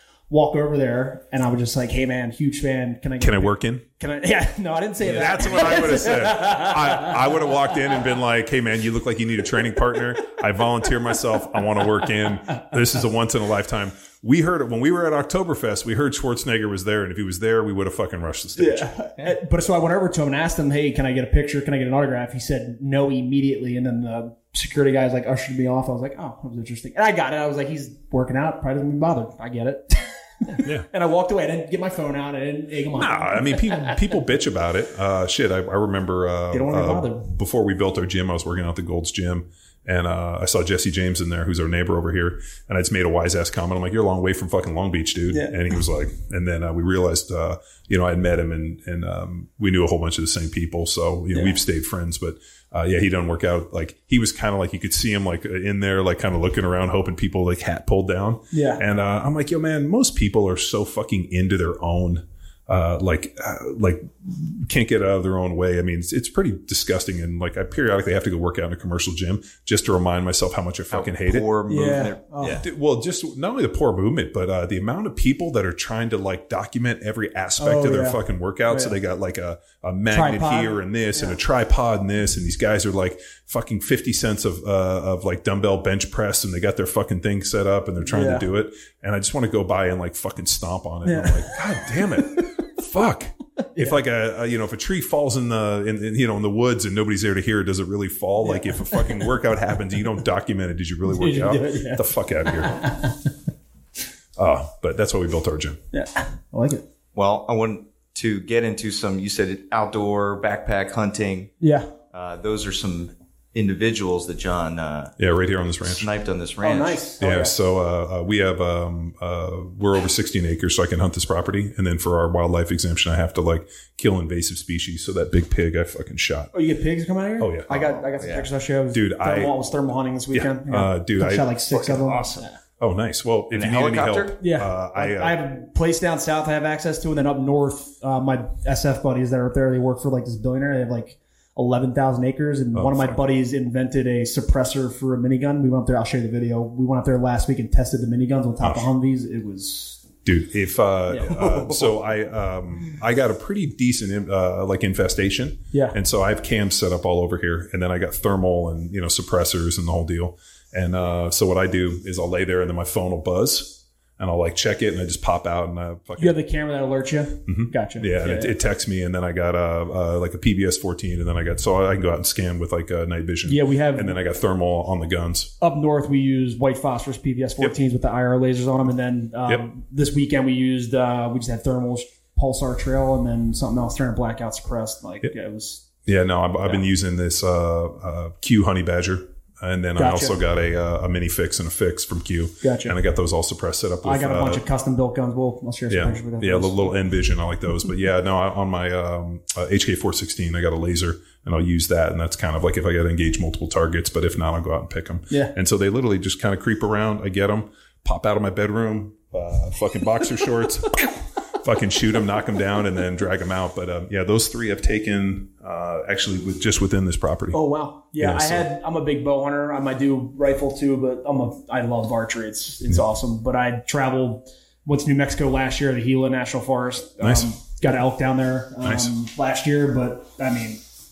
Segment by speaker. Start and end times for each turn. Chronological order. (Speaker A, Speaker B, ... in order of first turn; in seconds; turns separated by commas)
Speaker A: 0.3-7.2, Speaker B: 3.2-3.8, Speaker B: 5.0-19.3, Speaker A: 18.6-34.0, Speaker B: 32.9-72.0, Speaker A: 36.5-37.3, Speaker A: 45.3-45.6, Speaker A: 51.3-51.6, Speaker A: 58.5-58.8, Speaker C: 70.9-72.6, Speaker A: 71.7-72.6, Speaker B: 72.6-102.9, Speaker A: 77.6-78.9, Speaker A: 80.1-81.3, Speaker A: 88.1-88.5, Speaker A: 91.0-92.5, Speaker A: 93.7-94.0, Speaker A: 98.4-99.3, Speaker A: 101.1-103.3, Speaker B: 104.3-105.8, Speaker A: 105.9-106.8, Speaker C: 107.1-111.5, Speaker A: 111.6-111.9, Speaker C: 112.1-115.2, Speaker B: 115.2-116.1, Speaker C: 115.8-117.0, Speaker A: 116.6-117.5, Speaker B: 117.2-126.5, Speaker A: 126.5-132.6, Speaker B: 127.4-127.7, Speaker C: 127.7-128.5, Speaker B: 128.9-129.5, Speaker B: 130.3-131.5, Speaker C: 131.7-132.4, Speaker B: 132.8-135.4, Speaker C: 133.5-134.3, Speaker A: 134.4-150.0, Speaker B: 142.7-143.2, Speaker B: 148.6-148.9, Speaker B: 150.2-166.4, Speaker A: 151.1-152.0, Speaker A: 155.7-156.0, Speaker A: 166.2-168.5, Speaker B: 167.5-175.5, Speaker A: 173.4-174.2, Speaker A: 175.6-185.9, Speaker B: 186.0-194.6, Speaker A: 190.0-190.4, Speaker A: 192.6-192.9, Speaker A: 194.0-196.9, Speaker B: 195.9-217.6, Speaker A: 217.5-230.8, Speaker B: 218.2-218.7, Speaker B: 227.2-227.5, Speaker B: 228.8-229.1